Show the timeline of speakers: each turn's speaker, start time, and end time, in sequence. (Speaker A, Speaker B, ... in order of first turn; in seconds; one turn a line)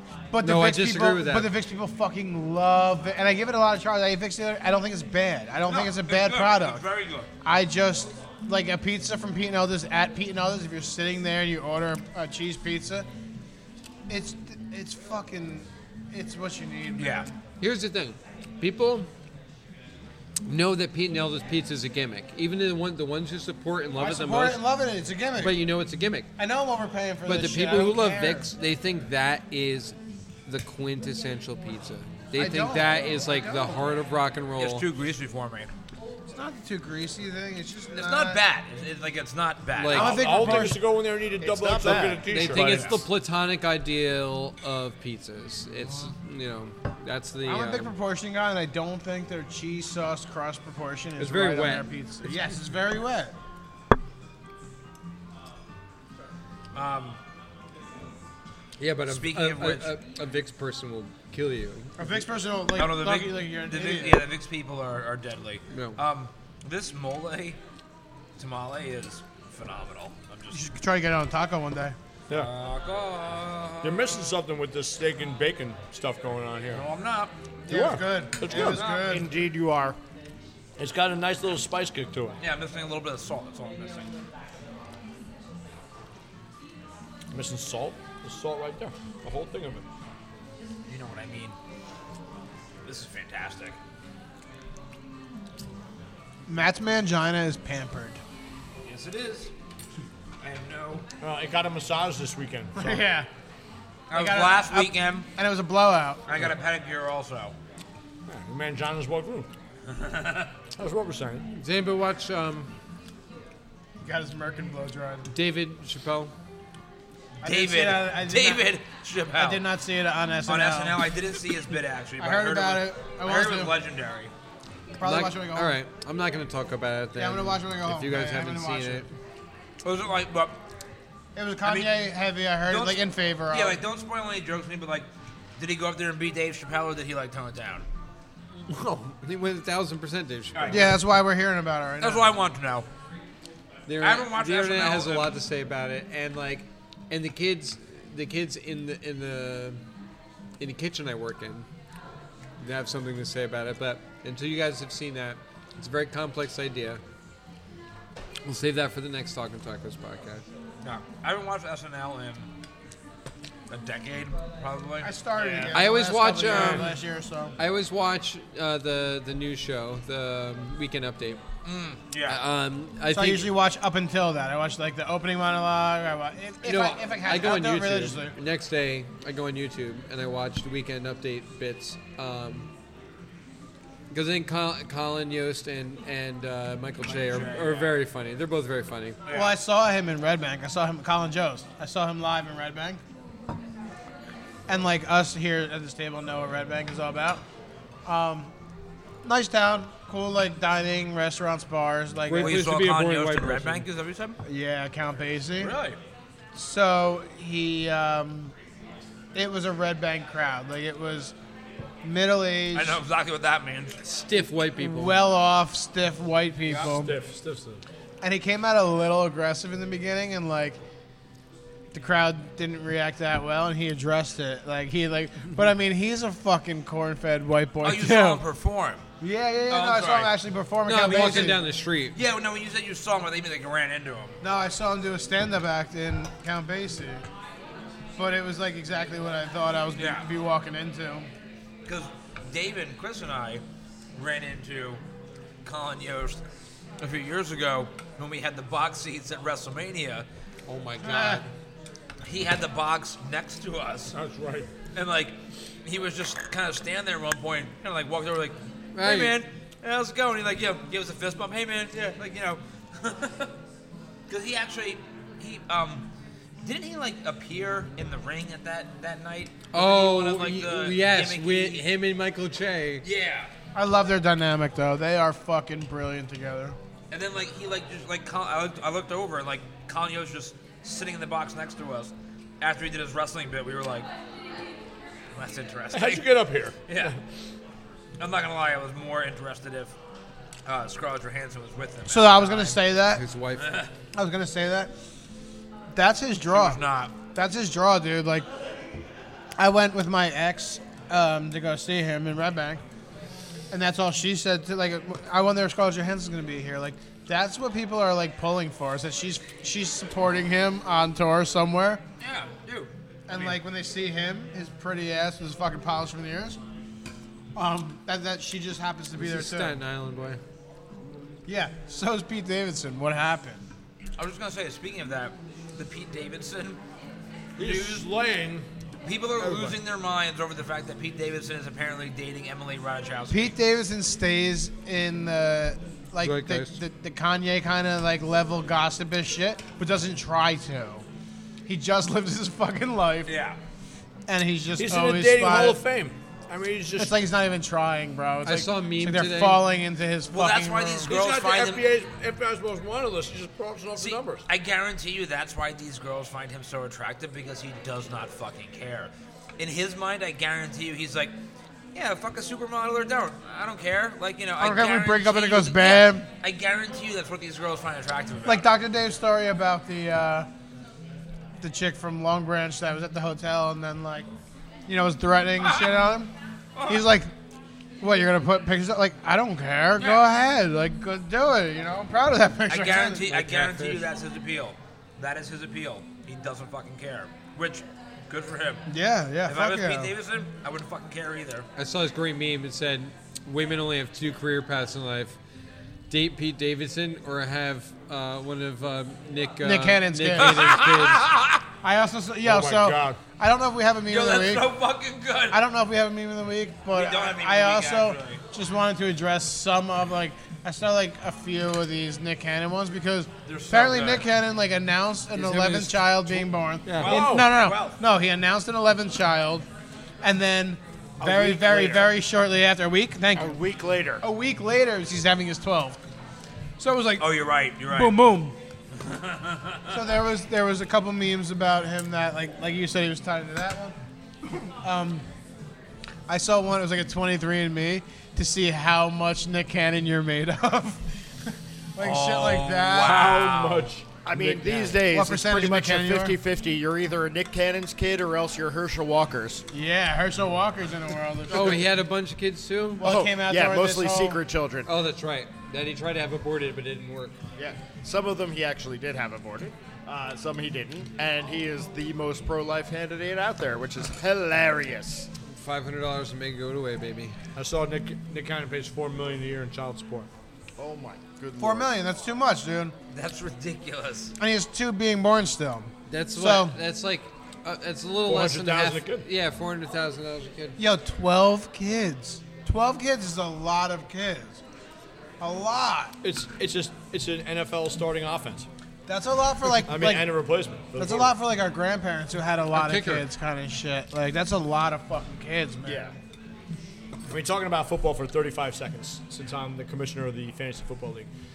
Speaker A: 0.3-6.8
Speaker B: 0.4-1.5
Speaker C: 5.7-7.3
Speaker A: 7.4-13.1
Speaker A: 14.1-17.3
Speaker C: 17.0-17.3
Speaker B: 17.6-19.1
Speaker B: 20.4-24.6
Speaker A: 23.9-25.6
Speaker B: 25.4-26.3
Speaker A: 26.4-28.5
Speaker B: 27.2-34.9
Speaker A: 32.3-33.9
Speaker C: 34.6-35.7
Speaker A: 36.3-38.4
Speaker C: 37.9-40.2
Speaker B: 39.7-40.6
Speaker A: 39.9-40.8
Speaker D: 40.0-43.0
Speaker E: 41.4-42.6
Speaker B: 42.3-47.9
Speaker C: 42.6-43.0
Speaker A: 47.4-53.3
Speaker B: 51.2-52.4
Speaker C: 56.7-57.2
Speaker B: 58.8-62.1
Speaker C: 59.0-60.0
Speaker A: 62.0-64.2
Speaker C: 62.8-67.6
Speaker B: 65.7-66.0
Speaker C: 68.4-70.6
Speaker A: 70.5-72.0
Speaker C: 72.3-74.3
Speaker D: 73.8-76.8
Speaker C: 76.7-77.3
Speaker A: 77.7-79.3
Speaker D: 77.7-78.8
Speaker E: 78.5-80.0
Speaker C: 78.5-79.2
Speaker D: 80.8-82.4
Speaker C: 82.4-84.1
Speaker D: 87.3-89.8
Speaker C: 90.9-91.5
Speaker C: 92.8-93.8
Speaker A: 96.5-98.2
Speaker C: 98.8-99.5
Speaker C: 100.4-101.0
Speaker D: 101.2-103.0
Speaker A: 102.8-103.3
Speaker C: 104.1-105.3
Speaker A: 104.1-106.2
Speaker C: 106.3-107.5
Speaker D: 108.3-109.5
Speaker C: 109.9-110.5
Speaker D: 110.7-111.5
Speaker B: 111.6-112.7
Speaker A: 114.0-115.3
Speaker B: 115.3-116.3
Speaker A: 117.4-118.7
Speaker C: 117.4-119.7
Speaker A: 119.3-121.0
Speaker C: 120.5-124.3
Speaker A: 122.2-123.7
Speaker A: 125.0-125.8
Speaker B: 125.0-129.1
Speaker A: 127.2-129.1
Speaker C: 129.8-130.6
Speaker A: 131.3-133.8
Speaker C: 131.6-131.9
Speaker C: 132.7-137.8
Speaker B: 138.7-140.9
Speaker C: 140.5-140.9
Speaker A: 140.7-142.3
Speaker C: 142.0-142.9
Speaker B: 143.9-149.8
Speaker C: 144.0-145.4
Speaker B: 150.6-151.7
Speaker B: 152.6-157.0
Speaker B: 158.4-160.4
Speaker C: 160.8-162.5
Speaker C: 163.7-165.9
Speaker A: 165.0-167.5
Speaker B: 165.7-166.9
Speaker D: 166.5-166.8
Speaker B: 167.6-171.4
Speaker C: 171.6-172.4
Speaker B: 172.3-173.5
Speaker A: 173.1-178.3
Speaker B: 176.6-182.7
Speaker B: 184.1-189.2
Speaker C: 187.0-187.9
Speaker C: 189.2-189.5
Speaker A: 189.3-193.0
Speaker A: 194.7-197.4
Speaker A: 198.0-198.5
Speaker A: 199.2-202.6
Speaker B: 202.3-203.8
Speaker C: 202.4-204.4
Speaker A: 204.4-205.8
Speaker C: 205.6-206.0
Speaker A: 206.5-208.5
Speaker A: 209.3-211.3
Speaker A: 212.0-213.0
Speaker C: 212.7-214.0
Speaker B: 214.0-215.2
Speaker A: 214.8-217.1
Speaker D: 216.7-217.8
Speaker A: 218.2-220.8
Speaker A: 221.9-228.4
Speaker C: 227.8-229.0
Speaker A: 229.2-231.6
Speaker C: 229.7-230.3
Speaker B: 230.8-232.2
Speaker C: 232.1-234.4
Speaker A: 234.4-237.2
Speaker A: 238.2-241.3
Speaker C: 239.9-240.3
Speaker C: 241.8-243.6
Speaker C: 244.2-245.0
Speaker C: 245.6-246.4
Speaker C: 247.0-250.2
Speaker B: 250.7-251.5
Speaker A: 251.0-251.4
Speaker C: 252.2-254.1
Speaker D: 254.1-254.7
Speaker C: 254.9-263.5
Speaker B: 258.9-259.3
Speaker C: 264.3-266.1
Speaker C: 266.6-271.9
Speaker B: 269.7-273.1
Speaker C: 273.0-273.5
Speaker A: 273.7-276.8
Speaker C: 277.1-284.1
Speaker C: 285.3-286.2
Speaker D: 285.9-287.2
Speaker C: 286.9-287.1
Speaker C: 288.2-289.9
Speaker C: 290.6-292.8
Speaker A: 292.1-293.2
Speaker B: 293.1-293.8
Speaker C: 293.6-293.9
Speaker A: 294.1-294.9
Speaker A: 295.9-296.8
Speaker C: 296.5-297.1
Speaker A: 297.3-298.4
Speaker A: 299.6-302.8
Speaker A: 303.7-312.0
Speaker C: 312.2-313.6
Speaker A: 313.3-316.6
Speaker A: 317.5-319.8
Speaker B: 319.1-320.4
Speaker A: 321.4-323.6
Speaker C: 324.2-326.8
Speaker D: 327.6-328.7
Speaker C: 327.6-328.1
Speaker C: 329.0-333.6
Speaker D: 329.4-329.8
Speaker A: 333.3-341.0
Speaker B: 336.2-336.8
Speaker A: 341.7-343.3
Speaker C: 343.2-343.6
Speaker A: 344.3-345.8
Speaker D: 344.8-347.1
Speaker A: 347.0-351.1
Speaker B: 348.4-349.6
Speaker C: 350.3-351.8
Speaker D: 351.1-354.4
Speaker C: 354.0-361.3
Speaker C: 361.9-368.7
Speaker A: 364.6-366.3
Speaker A: 368.4-370.5
Speaker A: 371.6-374.3
Speaker A: 374.9-376.3
Speaker C: 375.6-376.0
Speaker C: 376.7-377.1
Speaker A: 376.9-377.3
Speaker A: 378.0-383.3
Speaker C: 380.0-380.2
Speaker C: 382.7-388.9
Speaker B: 383.3-384.0
Speaker A: 388.9-390.1
Speaker C: 389.4-391.7
Speaker B: 391.8-395.4
Speaker B: 396.1-401.3
Speaker A: 399.6-400.8
Speaker C: 400.4-401.6
Speaker A: 401.8-404.7
Speaker D: 402.4-403.2
Speaker C: 404.1-405.6
Speaker A: 405.5-419.6
Speaker C: 406.9-408.4
Speaker C: 413.4-414.3
Speaker B: 415.3-417.1
Speaker C: 417.0-418.0
Speaker D: 417.0-417.5
Speaker A: 420.2-423.6
Speaker E: 421.2-422.1
Speaker E: 423.3-424.2
Speaker A: 424.2-426.0
Speaker A: 426.8-428.5
Speaker C: 427.2-428.2
Speaker C: 428.9-430.0
Speaker A: 429.9-433.9
Speaker A: 434.8-435.2
Speaker A: 436.3-443.2
Speaker C: 442.0-443.9
Speaker D: 442.9-444.8
Speaker E: 444.2-449.6
Speaker A: 444.8-446.4
Speaker A: 449.7-451.9
Speaker B: 451.5-453.0
Speaker A: 453.0-454.4
Speaker E: 453.0-454.9
Speaker B: 454.9-457.4
Speaker E: 457.6-465.3
Speaker B: 465.5-467.4
Speaker D: 467.6-470.3
Speaker E: 470.8-471.9
Speaker A: 471.6-472.9
Speaker C: 473.1-474.3
Speaker A: 474.4-476.8
Speaker B: 476.1-480.8
Speaker D: 478.2-479.3
Speaker A: 480.8-484.6
Speaker A: 485.4-486.1
Speaker D: 486.2-488.7
Speaker A: 489.1-490.4
Speaker D: 489.8-491.3
Speaker A: 490.9-496.1
Speaker B: 492.7-493.3
Speaker E: 495.9-496.1
Speaker D: 497.3-501.3